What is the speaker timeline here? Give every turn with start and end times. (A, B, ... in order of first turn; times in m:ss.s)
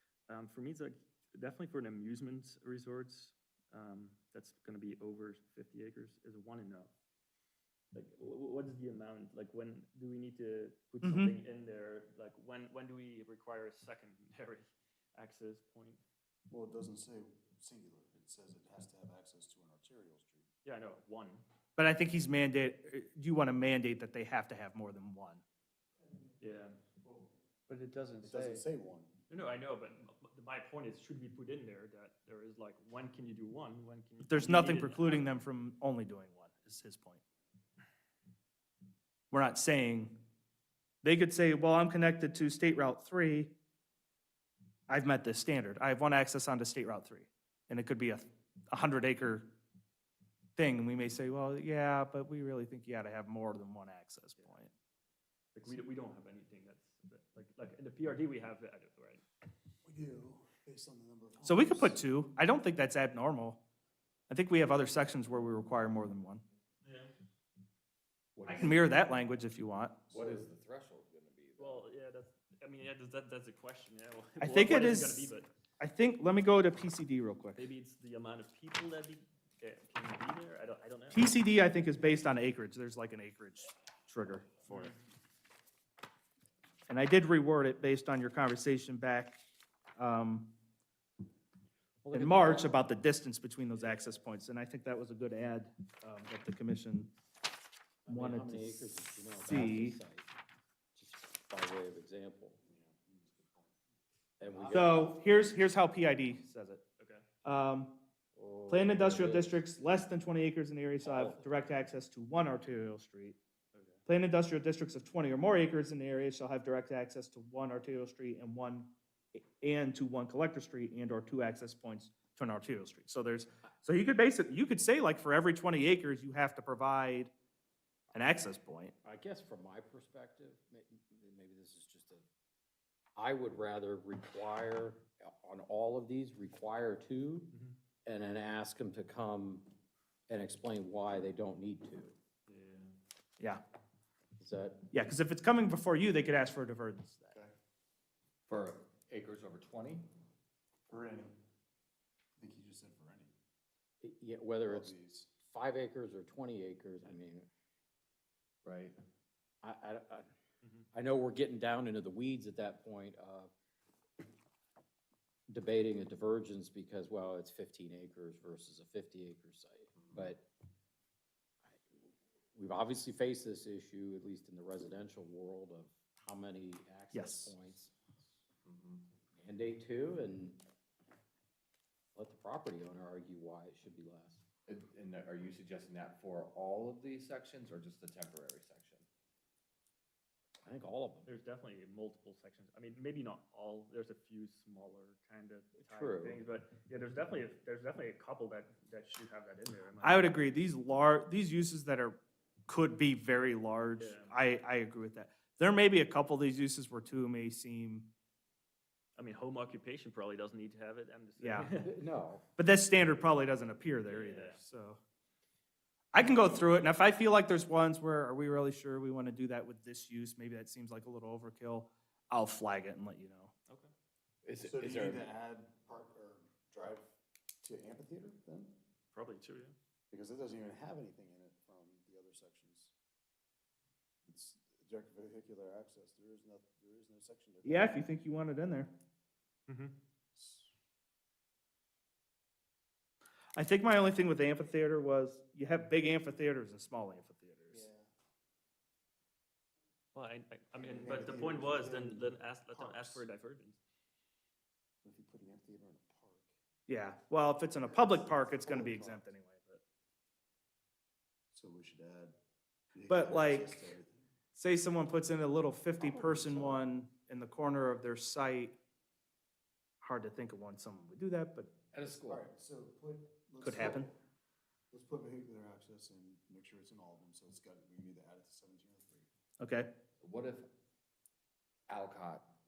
0:00.3-0:06.9 A
0:07.9-0:16.0 A
0:11.0-0:11.3 B
0:16.5-0:20.5 C
0:20.6-0:21.4 A
0:21.8-0:25.4 B
0:26.4-0:26.8 A
0:28.2-0:29.1 C
0:29.3-0:35.3 A
0:34.3-0:37.2 B
0:39.3-0:40.2 B
0:41.0-0:43.5 B
0:44.9-0:49.5 B
0:50.6-0:54.7 B
0:55.5-0:59.2 A
0:59.8-1:02.0 C
1:01.4-1:03.6 B
1:04.3-1:06.4 B
1:06.8-1:07.1 A
1:08.4-1:08.8 D
1:08.4-1:10.0 B
1:10.1-1:10.4 C
1:10.1-1:11.9 D
1:11.6-1:15.5 A
1:14.4-1:17.7 B
1:17.6-1:21.3 A
1:21.1-1:24.9 B
1:24.7-1:25.0 A
1:26.9-1:29.4 B
1:30.0-1:30.5 B
1:32.0-1:32.8 E
1:32.1-1:37.1 B
1:33.8-1:34.2 A
1:38.0-1:40.3 E
1:38.1-1:38.8 B
1:39.4-1:40.0 B
1:40.9-1:42.6 E
1:42.6-1:43.7 C
1:44.4-1:45.1 E
1:44.5-1:45.6 C
1:44.7-1:46.8 B
1:47.0-1:47.2 A
1:47.4-1:48.0 B
1:48.4-1:49.6 E
1:48.7-1:53.4 B
1:51.0-1:51.4 E
1:53.7-1:54.0 A
1:54.1-2:07.3 B
2:08.1-2:08.9 B
2:09.0-2:12.2 E
2:13.2-2:17.5 E
2:17.5-2:17.8 A
2:18.0-2:19.7 E
2:20.3-2:22.2 E
2:22.5-2:22.9 A
2:24.4-2:24.8 E
2:24.9-2:27.3 B
2:28.5-2:30.1 D
2:30.9-2:31.3 C
2:32.4-2:33.3 C
2:34.0-2:37.5 E
2:34.6-2:35.3 C
2:38.6-2:39.0 D
2:39.6-2:40.3 E
2:40.6-2:40.9 A
2:40.9-2:43.5 E
2:45.5-2:50.5 E
2:50.0-2:50.3 D
2:52.5-2:57.9 E
2:57.1-2:57.5 B
2:58.6-2:59.1 D
2:59.4-3:00.6 E
3:02.1-3:04.4 E
3:04.7-3:09.1 D
3:10.6-3:11.3 E
3:11.2-3:20.4 A
3:15.8-3:16.4 E
3:20.0-3:28.1 B
3:24.0-3:24.4 A
3:29.2-3:31.9 A
3:31.4-3:31.7 B
3:31.8-3:32.4 E
3:32.6-3:35.0 B
3:34.0-3:34.6 A
3:36.1-3:43.5 B
3:44.4-3:45.2 D
3:44.6-3:48.7 C
3:49.1-3:49.7 A
3:50.1-3:52.9 C
3:54.2-3:58.0 C
3:57.6-3:58.9 B
3:59.7-3:59.9 A
4:00.3-4:00.7 C
4:03.5-4:07.8 B
4:07.7-4:08.1 C
4:10.1-4:13.8 A
4:10.7-4:13.3 C
4:15.0-4:16.5 C
4:16.9-4:19.8 B
4:17.8-4:19.3 C
4:21.5-4:22.4 C
4:22.9-4:24.2 C
4:23.1-4:23.7 B
4:24.6-4:28.8 B
4:26.0-4:26.9 C
4:30.0-4:31.8 B
4:31.9-4:32.4 D
4:32.1-4:34.2 C
4:33.6-4:34.1 B
4:34.9-4:39.3 C
4:39.6-4:39.9 B
4:40.2-4:40.7 D
4:41.9-4:42.5 D